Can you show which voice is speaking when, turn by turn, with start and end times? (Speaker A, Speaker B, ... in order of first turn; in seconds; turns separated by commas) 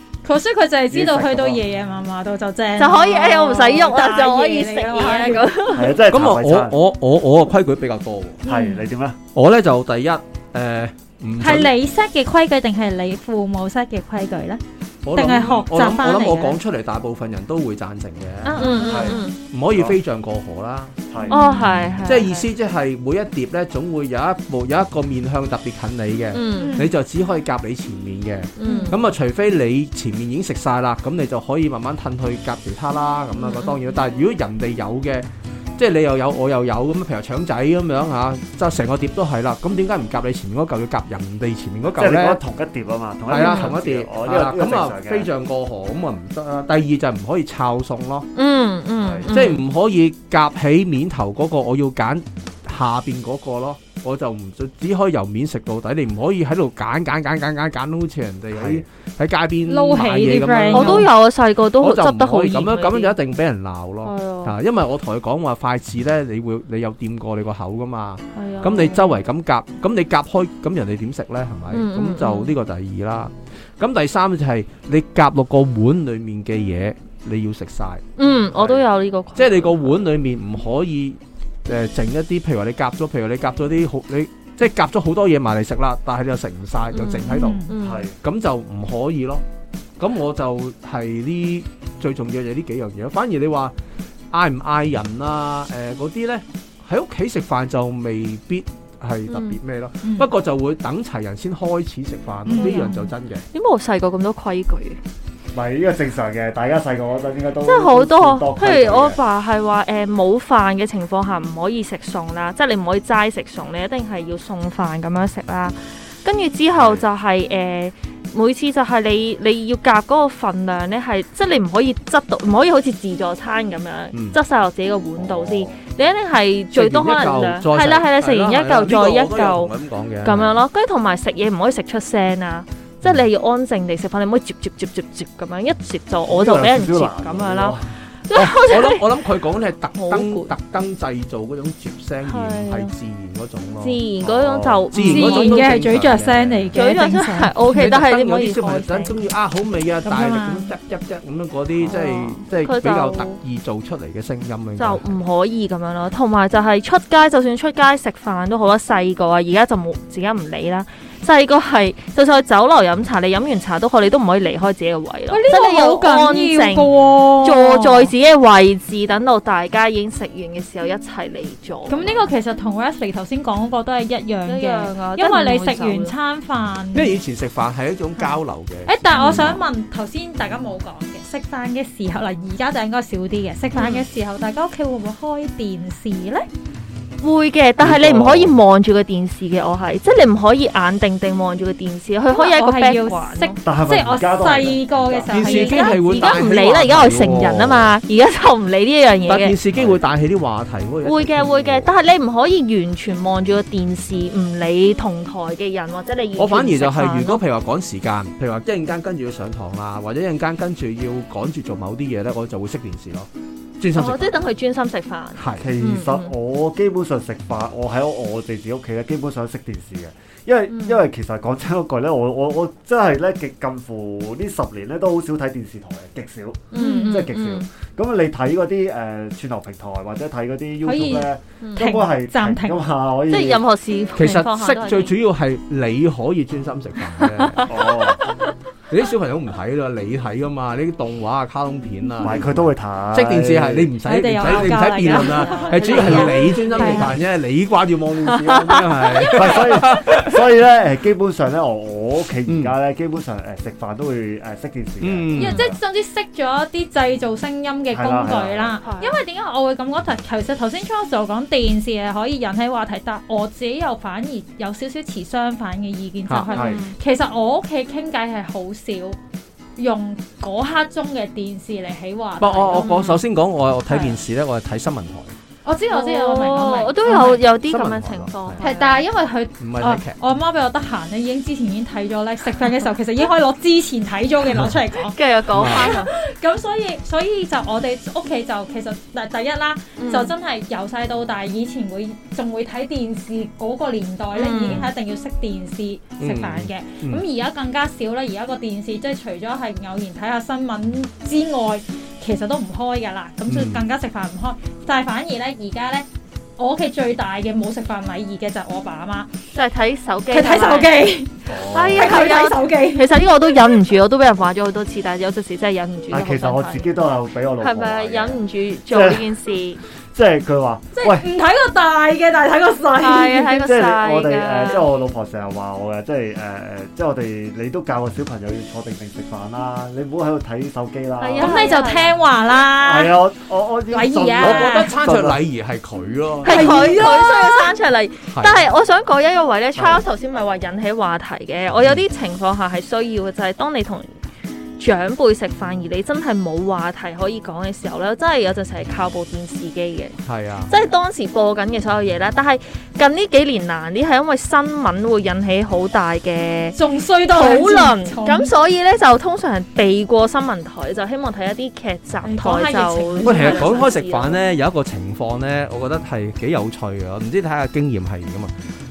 Speaker A: 0.2-5.5, Speaker B: 0.9-1.6, Speaker C: 2.8-6.0, Speaker B: 5.7-6.8, Speaker D: 6.1-8.4, Speaker A: 8.4-8.8, Speaker B: 8.4-9.2, Speaker D: 9.3-11.7, Speaker A: 11.4-14.6, Speaker D: 15.0-18.9, Speaker A: 15.1-16.6, Speaker A: 18.4-19.2, Speaker C: 18.6-19.4, Speaker B: 18.9-20.0, Speaker D: 19.5-20.9, Speaker B: 21.1-21.4, Speaker A: 21.2-21.9, Speaker C: 21.3-22.4, Speaker D: 22.0-42.4, Speaker C: 26.3-26.8, Speaker A: 26.6-26.9, Speaker C: 28.6-29.0, Speaker A: 28.6-29.0, Speaker C: 33.4-34.0, Speaker B: 41.9-45.3, Speaker D: 43.3-48.3, Speaker C: 43.3-43.8, Speaker C: 48.4-49.6, Speaker B: 49.0-49.3, Speaker D: 49.3-61.1, Speaker B: 58.5-58.8, Speaker A: 59.7-61.1, Speaker C: 60.7-63.1, Speaker D: 61.8-78.0, Speaker C: 64.0-64.5, Speaker C: 68.3-69.2, Speaker C: 71.7-72.5, Speaker C: 78.2-79.8, Speaker B: 78.5-78.8, Speaker D: 79.3-87.6, Speaker C: 86.9-88.1, Speaker A: 87.3-87.7, Speaker B: 87.8-88.2, Speaker D: 88.2-89.4, Speaker D: 90.0-93.7, Speaker D: 94.3-103.4, Speaker C: 99.3-99.6, Speaker A: 100.0-100.3, Speaker A: 102.5-103.1, Speaker C: 102.6-103.0, Speaker C: 103.5-105.0, Speaker B: 105.5-109.2, Speaker C: 107.6-129.7, Speaker B: 116.7-117.0, Speaker D: 124.1-124.4, Speaker B: 125.2-125.8, Speaker D: 126.7-130.6, Speaker C: 130.2-139.1, Speaker B: 136.3-137.9, Speaker D: 138.3-144.0, Speaker C: 139.9-140.5, Speaker C: 142.2-142.9, Speaker C: 143.8-145.7, Speaker B: 144.2-144.8, Speaker D: 144.9-146.7, Speaker A: 144.9-147.6, Speaker C: 146.7-149.2, Speaker D: 147.7-155.2, Speaker A: 150.0-150.7, Speaker C: 151.8-153.4, Speaker C: 154.8-172.3, Speaker A: 165.3-168.1, Speaker A: 171.9-177.1, Speaker C: 174.5-176.1, Speaker D: 176.9-179.6, Speaker A: 178.8-186.5, Speaker C: 179.1-179.5, Speaker C: 183.7-184.0, Speaker C: 187.2-193.6, Speaker B: 187.8-188.5, Speaker D: 187.9-188.2, Speaker A: 192.3-196.4, Speaker B: 193.6-195.7, Speaker D: 195.3-197.9, Speaker C: 195.4-199.6, Speaker D: 199.3-201.9, Speaker B: 199.7-200.0, Speaker C: 201.0-207.4, Speaker D: 206.4-214.4, Speaker C: 213.9-216.3, Speaker D: 215.3-215.7, Speaker B: 215.6-233.6, Speaker C: 220.7-221.0, Speaker C: 226.7-227.7, Speaker A: 226.8-227.2, Speaker A: 230.8-232.8, Speaker C: 233.3-235.1, Speaker D: 234.2-237.7, Speaker C: 237.2-238.5, Speaker B: 237.7-238.3, Speaker D: 238.9-250.4, Speaker B: 242.2-243.9, Speaker A: 244.0-247.2, Speaker B: 245.8-246.4, Speaker C: 248.2-249.6, Speaker B: 249.3-255.8, Speaker D: 252.4-252.7, Speaker D: 255.0-255.7, Speaker A: 255.3-269.2, Speaker B: 257.9-258.8, Speaker C: 258.8-259.2, Speaker C: 266.5-266.9, Speaker B: 266.5-266.8, Speaker A: 269.8-272.9, Speaker D: 272.4-275.3, Speaker C: 272.7-273.2, Speaker A: 273.9-274.2, Speaker A: 275.6-277.4, Speaker C: 275.9-279.0, Speaker D: 277.6-278.6, Speaker A: 278.6-306.1, Speaker D: 279.6-280.2, Speaker C: 285.1-286.1, Speaker D: 285.5-286.0, Speaker C: 290.0-290.3, Speaker C: 294.3-294.9, Speaker D: 296.2-297.2, Speaker D: 303.5-303.8, Speaker A: 306.6-309.3, Speaker C: 309.5-316.9, Speaker A: 310.3-313.2, Speaker B: 311.5-312.2, Speaker B: 316.1-319.3, Speaker C: 317.6-319.8, Speaker B: 320.1-321.3, Speaker A: 320.9-323.6, Speaker C: 323.0-324.9, Speaker B: 323.6-331.7, Speaker C: 331.2-332.1, Speaker A: 331.4-333.2, Speaker B: 332.8-335.4, Speaker A: 333.9-334.9, Speaker D: 334.4-337.0, Speaker C: 336.4-344.1, Speaker A: 336.4-337.7, Speaker D: 338.3-338.6, Speaker B: 339.8-340.0, Speaker C: 344.8-350.2, Speaker D: 350.2-350.7, Speaker C: 350.7-356.8, Speaker A: 356.7-358.5, Speaker C: 357.3-364.4, Speaker A: 362.2-363.9, Speaker D: 363.2-368.7